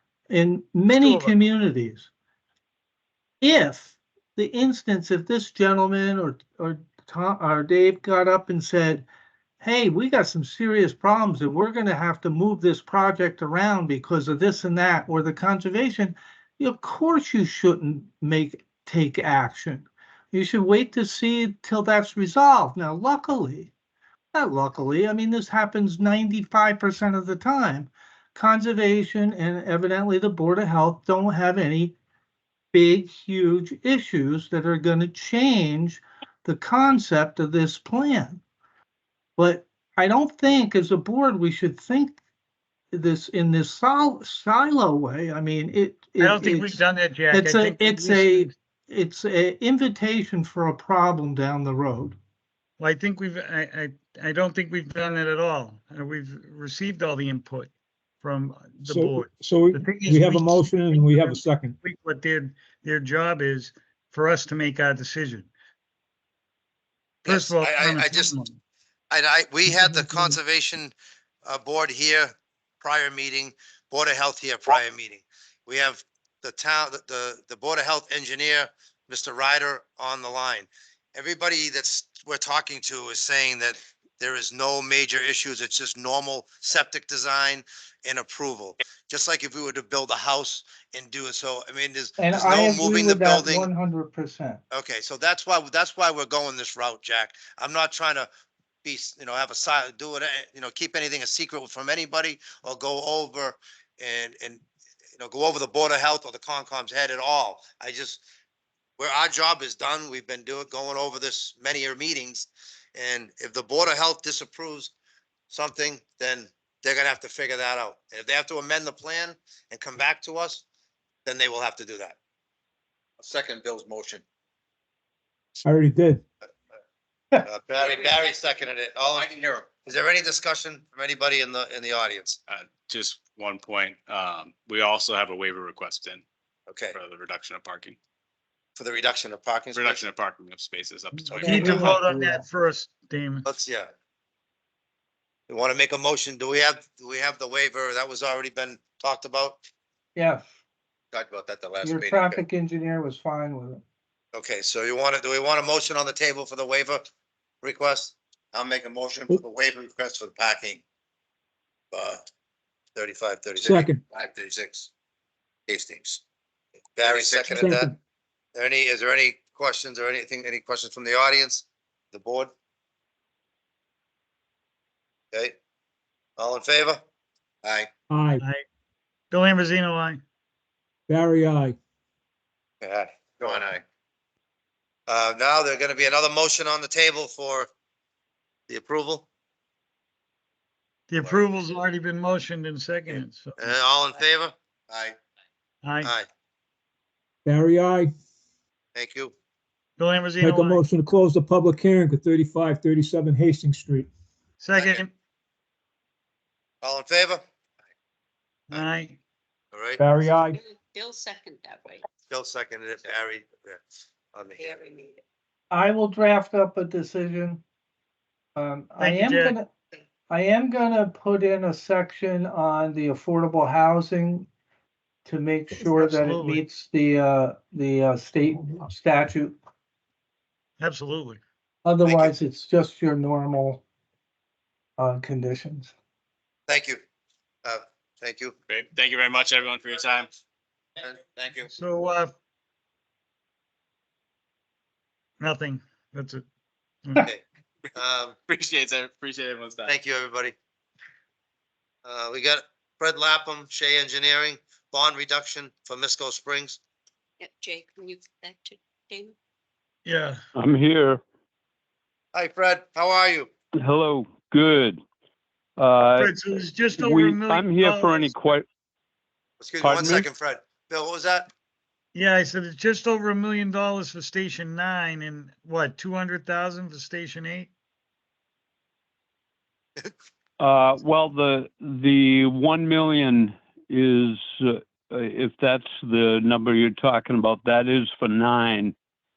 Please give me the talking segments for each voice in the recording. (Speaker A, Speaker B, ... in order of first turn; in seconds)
Speaker A: 0.3-2.1, 3.4-9.1, 9.6-23.7, 24.3-32.0, 32.7-38.4, 39.4-42.2, 42.9-52.2, 92.2-94.6, 141.4-142.4, 150.2-150.4, 151.8-153.8, 215.7-217.6, 218.6-219.7, 220.3-224.5, 225.3-229.6, 231.8-233.8, 235.0-235.9
Speaker B: 0.9-1.3, 46.2-48.5, 52.8-65.5, 67.2-68.6, 69.7-70.4, 141.1-143.5, 179.3-180.2, 191.1-193.7, 195.8-196.1, 200.0-200.8, 204.6-205.1, 208.7-209.2, 219.0-219.6, 225.8-226.6, 230.8-231.4, 241.7-242.3, 245.4-246.4, 260.1-260.4, 266.1-268.3, 272.1-277.7
Speaker C: 58.9-61.8, 125.6-126.2, 163.6-164.0, 167.5-168.0, 178.1-178.4, 181.1-181.8, 197.4-198.1, 200.4-204.1, 210.0-210.6
Speaker D: 67.2-68.4, 69.1-93.7, 94.7-98.3, 98.8-104.6, 105.2-108.2, 109.0-114.9, 115.5-120.6, 121.2-122.2, 123.2-124.2, 127.5-132.4, 136.7-137.0, 138.8-140.1, 141.5-141.8, 143.4-143.9, 145.5-149.6, 151.1-152.4, 154.3-157.0, 157.6-160.8, 161.9-162.2, 162.9-164.9, 165.7-166.2, 167.0-167.9, 168.6-172.5, 175.3-175.6, 176.4-177.0, 182.8-183.8, 185.1-187.7, 188.7-189.3, 191.2-191.5, 193.6-195.2, 196.0-196.3, 198.9-199.3, 204.8-205.0, 206.8-207.4, 209.7-210.0, 212.3-213.8, 214.3-214.8, 232.1-232.3, 236.7-237.0, 237.6-238.6, 241.0-241.7, 247.9-248.4, 249.9-250.6, 252.1-256.8, 262.3-263.5, 269.6-271.5
Speaker E: 132.5-136.2, 136.9-138.0, 139.7-141.4, 238.7-240.3, 248.5-249.9
Speaker F: 210.5-212.1, 214.6-215.2, 257.4-259.4
Speaker G: 260.6-261.2, 263.8-265.0, 265.8-266.3, 267.0-268.7, 269.8-270.3, 280.6-288.9